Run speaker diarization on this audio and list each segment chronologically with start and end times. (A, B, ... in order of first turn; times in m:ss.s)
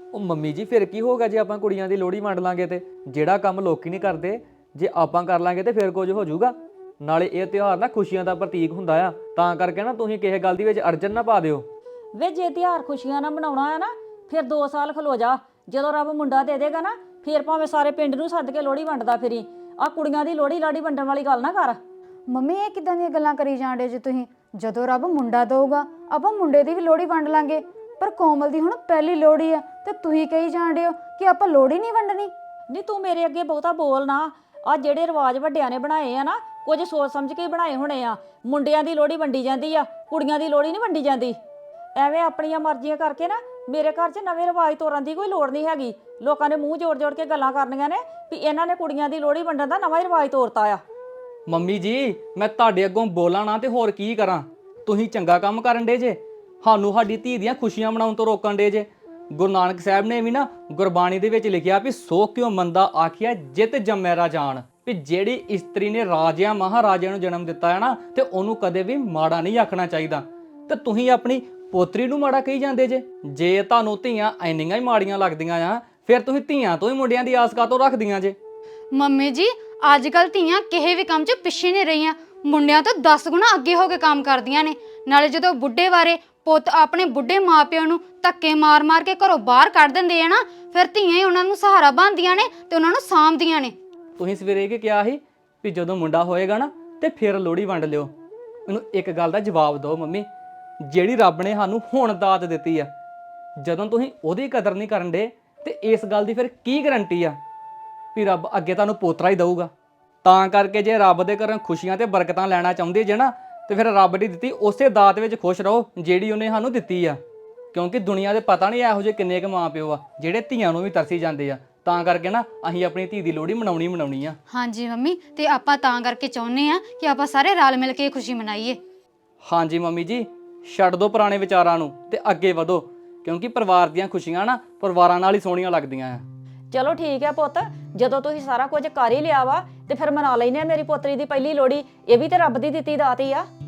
0:00.1-0:11.6 A
0:12.2-0:21.8 B
0:22.3-0:32.3 C
0:32.7-0:41.4 B
0:42.0-0:50.8 B
0:51.5-1:18.4 A
1:19.0-1:33.7 D
1:34.2-1:38.1 A
1:38.7-1:40.3 A
1:40.8-1:42.9 A
1:43.6-1:47.4 A
1:48.1-1:49.7 A
1:50.2-1:57.2 A
1:57.7-2:04.4 A
2:04.5-2:08.8 D
2:09.4-2:16.2 A
2:16.7-2:23.5 B